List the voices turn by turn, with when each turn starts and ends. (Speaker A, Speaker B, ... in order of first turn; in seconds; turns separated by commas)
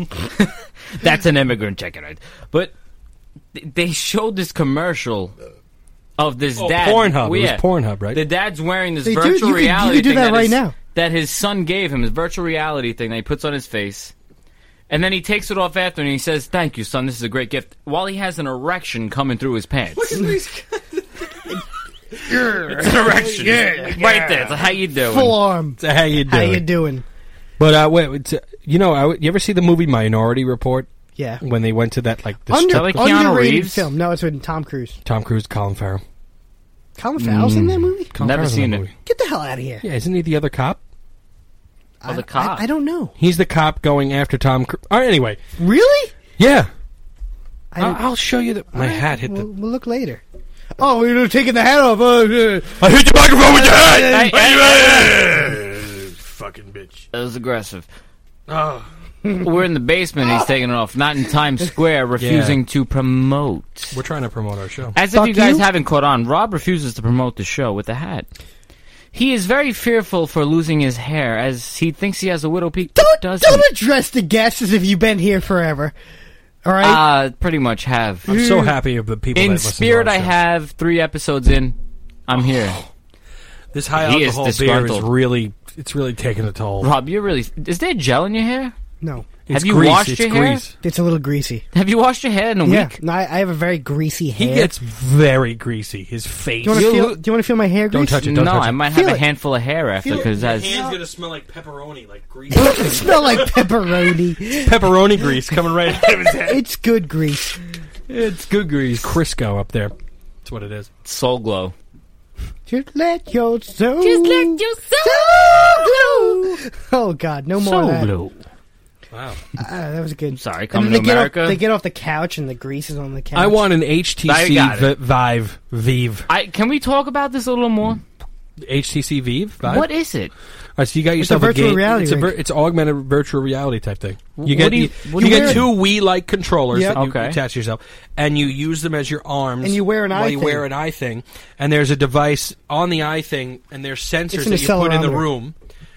Speaker A: 0.2-2.7, Speaker A: 3.5-5.3, Speaker A: 6.2-14.1, Speaker B: 6.6-8.2, Speaker C: 9.1-10.8, Speaker A: 14.9-20.2, Speaker B: 19.9-23.9, Speaker C: 22.3-24.6, Speaker A: 22.4-25.4, Speaker C: 25.1-27.1, Speaker B: 25.8-26.6, Speaker B: 27.6-30.9, Speaker C: 31.2-31.4, Speaker B: 31.4-33.1, Speaker C: 32.5-35.0, Speaker A: 32.7-33.9, Speaker B: 35.0-36.0, Speaker C: 37.0-38.1, Speaker A: 37.2-38.9, Speaker B: 38.1-38.9, Speaker C: 39.0-39.8, Speaker B: 39.8-40.8, Speaker C: 42.0-43.1, Speaker A: 42.1-42.7, Speaker B: 43.2-45.4, Speaker C: 45.6-46.2, Speaker B: 46.4-46.7, Speaker C: 47.7-48.0, Speaker B: 47.8-49.5, Speaker C: 48.7-50.2, Speaker C: 50.8-54.3, Speaker B: 52.8-57.1, Speaker A: 54.0-55.2, Speaker A: 57.1-57.9, Speaker B: 58.5-58.9, Speaker A: 59.4-64.0, Speaker B: 62.2-62.6, Speaker B: 63.9-65.0, Speaker A: 65.0-68.3, Speaker C: 65.1-65.7, Speaker A: 69.1-73.7, Speaker C: 73.0-75.9, Speaker C: 76.7-77.0, Speaker A: 76.8-78.6, Speaker B: 78.3-80.4, Speaker C: 78.3-78.8, Speaker A: 79.3-82.8, Speaker B: 83.7-86.9, Speaker A: 84.0-85.1, Speaker A: 86.8-88.7, Speaker C: 89.0-89.3, Speaker B: 89.5-90.8, Speaker A: 89.5-90.6, Speaker C: 90.8-91.6, Speaker A: 91.7-93.0, Speaker C: 92.7-94.7, Speaker B: 94.4-97.0, Speaker C: 96.6-99.2, Speaker A: 96.7-97.2, Speaker B: 97.9-98.8, Speaker A: 98.2-100.8, Speaker C: 100.0-101.0, Speaker B: 100.1-106.6, Speaker C: 102.5-105.3, Speaker C: 106.5-107.6, Speaker A: 108.1-109.1, Speaker B: 108.9-110.9, Speaker A: 111.0-111.8, Speaker C: 112.7-118.1, Speaker A: 114.0-116.6, Speaker A: 117.6-118.4, Speaker B: 119.1-119.4, Speaker C: 119.5-123.6, Speaker A: 120.3-121.6, Speaker B: 123.3-126.3, Speaker A: 124.3-124.9, Speaker A: 126.3-128.0, Speaker B: 128.6-129.9, Speaker A: 129.7-130.3, Speaker B: 130.8-145.6, Speaker C: 131.2-132.3, Speaker A: 134.4-135.7, Speaker C: 135.2-135.7, Speaker A: 136.9-137.4, Speaker C: 139.6-140.7, Speaker C: 144.3-145.2